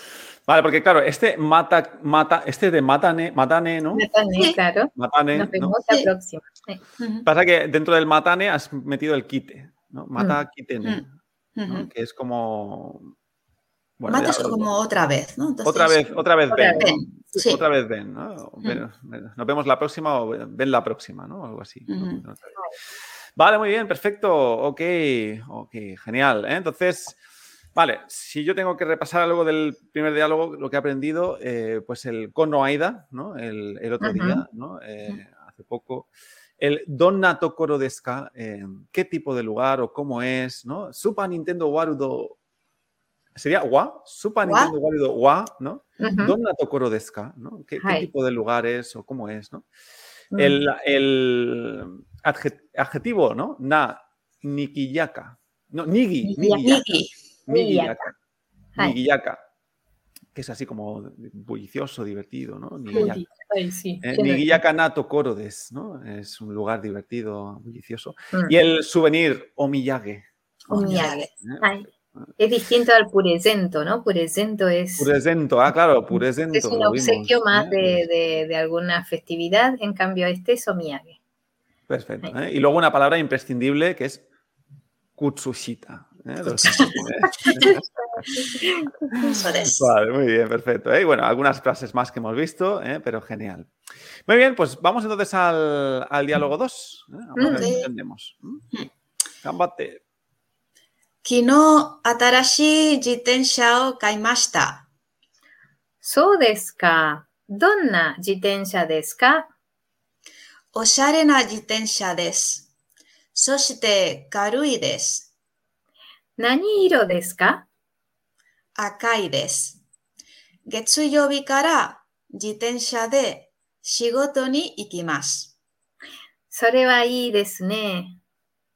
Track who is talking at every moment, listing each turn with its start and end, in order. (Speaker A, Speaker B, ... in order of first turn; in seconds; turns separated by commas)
Speaker A: 0.5-4.1, Speaker B: 3.9-6.8, Speaker C: 4.3-4.6, Speaker A: 4.9-5.8, Speaker C: 7.0-7.3, Speaker A: 7.2-11.1, Speaker C: 10.8-11.9, Speaker A: 11.7-13.1, Speaker A: 14.0-14.7, Speaker C: 14.1-16.2, Speaker A: 15.6-22.6, Speaker B: 16.5-16.9, Speaker C: 16.8-17.6, Speaker C: 21.9-22.2, Speaker A: 23.3-27.2, Speaker A: 27.7-42.4, Speaker B: 34.0-34.4, Speaker A: 43.3-49.6, Speaker C: 44.4-44.7, Speaker B: 46.0-46.4, Speaker B: 47.8-48.1, Speaker B: 50.3-50.6, Speaker A: 50.3-56.9, Speaker C: 56.3-57.1, Speaker B: 56.5-56.7, Speaker A: 57.5-58.1, Speaker B: 57.5-58.1, Speaker A: 58.8-59.4, Speaker A: 60.3-63.2, Speaker B: 62.9-64.6, Speaker A: 64.0-72.0, Speaker C: 70.7-71.3, Speaker B: 70.7-75.1, Speaker A: 75.0-78.0, Speaker B: 76.5-81.2, Speaker A: 81.9-84.2, Speaker A: 85.2-88.4, Speaker C: 86.5-87.0, Speaker B: 87.6-89.3, Speaker A: 89.1-93.7, Speaker C: 89.2-89.9, Speaker A: 94.2-98.6, Speaker B: 97.3-97.7, Speaker C: 97.5-97.9, Speaker A: 99.4-100.0, Speaker C: 101.2-104.9, Speaker B: 106.0-109.5, Speaker C: 110.7-112.7, Speaker C: 113.3-115.3, Speaker B: 116.4-117.7, Speaker C: 118.8-119.8, Speaker C: 120.7-125.5, Speaker B: 126.5-128.2